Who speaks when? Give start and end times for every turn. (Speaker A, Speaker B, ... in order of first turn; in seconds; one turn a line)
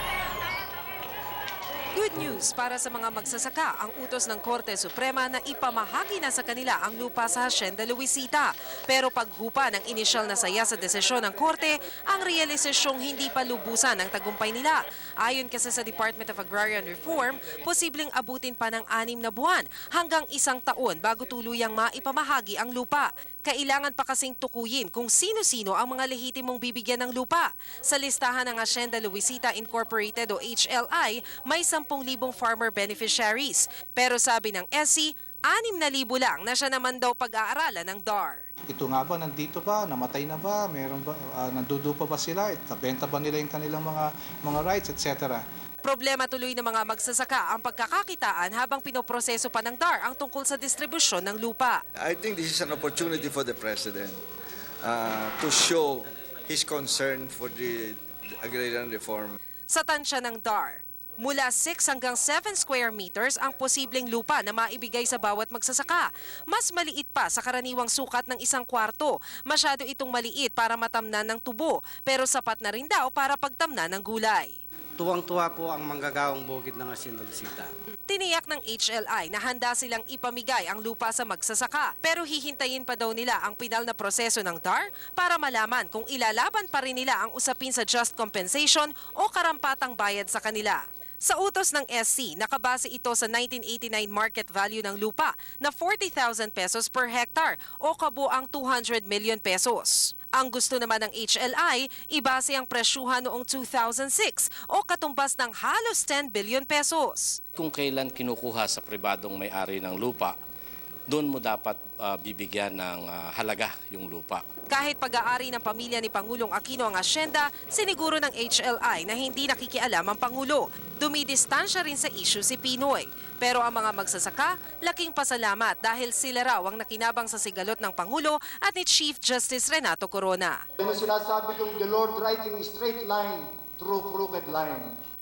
Speaker A: 1.9-38.4
Speaker B: 38.7-45.4
Speaker A: 45.8-51.8
Speaker C: 52.0-54.2
Speaker C: 54.8-59.4
Speaker A: 59.7-74.5
Speaker D: 75.0-77.7
Speaker A: 78.1-107.4
Speaker E: 107.6-110.3
Speaker E: 111.1-114.4
Speaker A: 114.7-130.6
Speaker F: 130.8-134.9